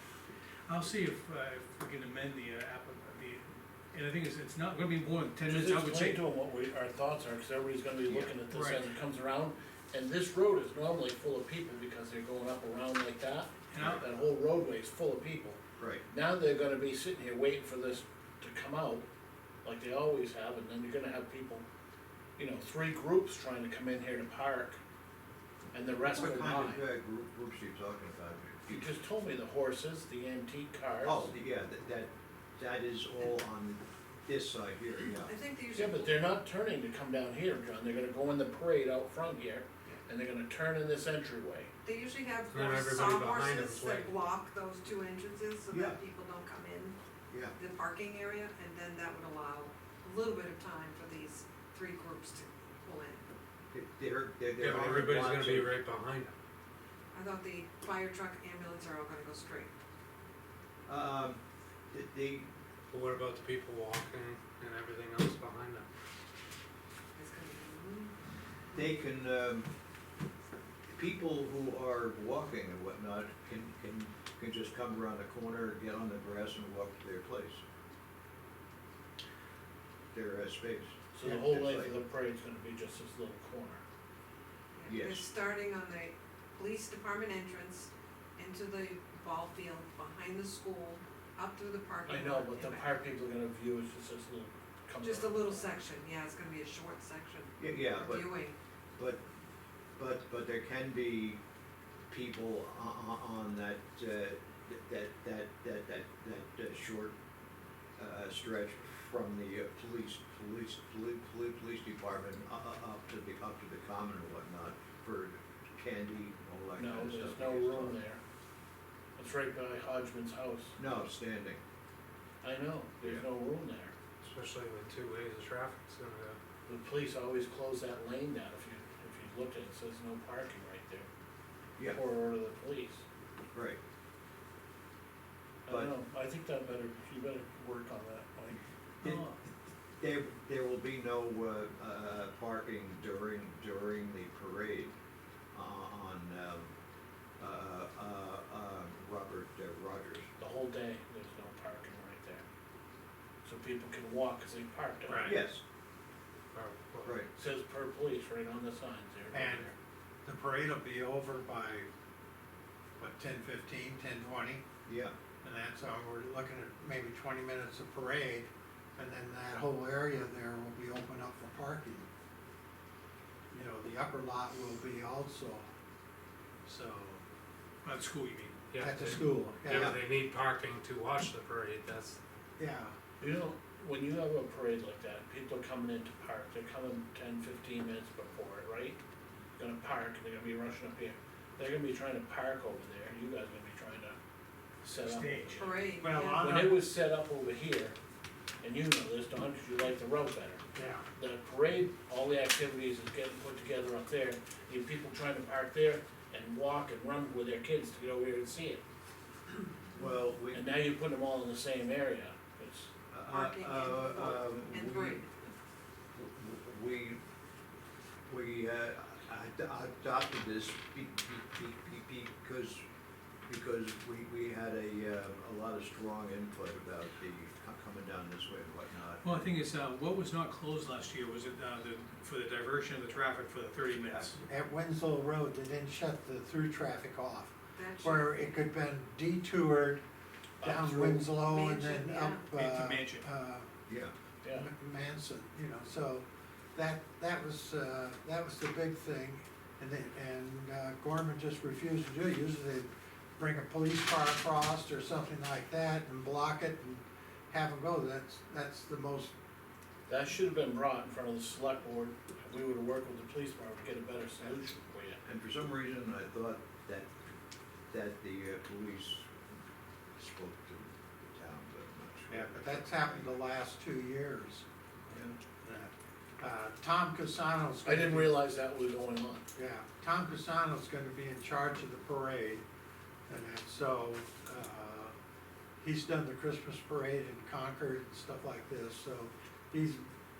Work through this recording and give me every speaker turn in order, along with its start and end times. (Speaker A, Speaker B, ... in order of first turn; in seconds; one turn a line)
Speaker A: 0.7-6.2
Speaker B: 5.4-19.1
Speaker C: 8.1-8.3
Speaker A: 8.5-8.8
Speaker A: 13.7-14.0
Speaker C: 13.8-14.0
Speaker C: 15.8-16.0
Speaker B: 19.6-21.6
Speaker B: 22.4-24.8
Speaker B: 25.7-26.8
Speaker C: 26.0-29.0
Speaker B: 28.7-31.3
Speaker C: 31.0-35.3
Speaker D: 35.2-36.3
Speaker B: 35.7-41.7
Speaker D: 41.8-47.0
Speaker E: 42.5-44.1
Speaker C: 45.7-46.0
Speaker D: 47.5-53.3
Speaker C: 53.7-55.7
Speaker E: 54.5-56.3
Speaker D: 57.1-59.7
Speaker C: 60.9-61.4
Speaker C: 61.9-62.5
Speaker E: 62.9-65.9
Speaker D: 67.1-68.1
Speaker C: 68.8-69.7
Speaker C: 70.9-77.6
Speaker C: 80.1-81.9
Speaker B: 81.1-83.8
Speaker D: 84.7-92.9
Speaker C: 84.9-85.2
Speaker B: 92.1-95.8
Speaker D: 95.0-98.5
Speaker C: 97.6-98.3
Speaker C: 99.0-99.2
Speaker C: 100.0-101.4
Speaker C: 102.1-107.1
Speaker C: 108.0-118.0
Speaker B: 116.7-118.2
Speaker B: 119.2-120.7
Speaker C: 120.8-121.6
Speaker B: 122.4-123.9
Speaker E: 124.2-126.4
Speaker B: 126.7-131.1
Speaker B: 131.9-133.0
Speaker C: 133.5-133.8
Speaker B: 135.6-138.6
Speaker A: 139.0-139.3
Speaker C: 140.0-144.9
Speaker C: 145.5-146.7
Speaker C: 147.4-150.3
Speaker B: 150.4-152.4
Speaker B: 153.4-155.4
Speaker F: 155.1-155.3
Speaker C: 155.2-155.6
Speaker E: 156.5-157.2
Speaker B: 157.3-159.7
Speaker F: 159.3-159.7
Speaker F: 160.2-161.9
Speaker F: 163.0-164.6
Speaker C: 164.8-165.1
Speaker F: 165.4-172.1
Speaker F: 173.5-175.6
Speaker F: 176.7-177.2
Speaker A: 177.8-178.6
Speaker E: 178.7-182.2
Speaker F: 178.8-180.0
Speaker C: 179.7-180.0
Speaker F: 182.6-182.9
Speaker B: 183.2-189.0
Speaker B: 189.6-194.2
Speaker B: 194.8-197.9
Speaker A: 195.0-195.8
Speaker D: 195.6-196.4
Speaker F: 196.0-196.8
Speaker B: 198.6-200.6
Speaker F: 200.7-201.0
Speaker B: 201.2-208.8
Speaker C: 209.9-210.6
Speaker B: 210.5-212.9
Speaker C: 213.1-215.2
Speaker D: 213.3-215.3
Speaker C: 216.1-217.2
Speaker C: 218.3-222.8
Speaker C: 223.5-229.3
Speaker A: 229.2-234.4
Speaker F: 234.4-240.0
Speaker D: 237.7-238.4
Speaker B: 240.6-240.9
Speaker F: 240.6-243.7
Speaker A: 240.8-241.5
Speaker D: 241.0-242.5
Speaker A: 242.5-243.2
Speaker C: 243.9-244.1
Speaker B: 244.4-244.7
Speaker F: 244.5-259.3
Speaker B: 260.1-265.2
Speaker F: 264.4-264.7
Speaker C: 265.2-267.1
Speaker C: 267.9-269.3
Speaker C: 270.2-273.3
Speaker F: 272.3-274.6
Speaker F: 275.6-278.4
Speaker B: 277.8-279.4
Speaker F: 279.6-282.6
Speaker F: 283.3-285.1
Speaker F: 285.8-290.0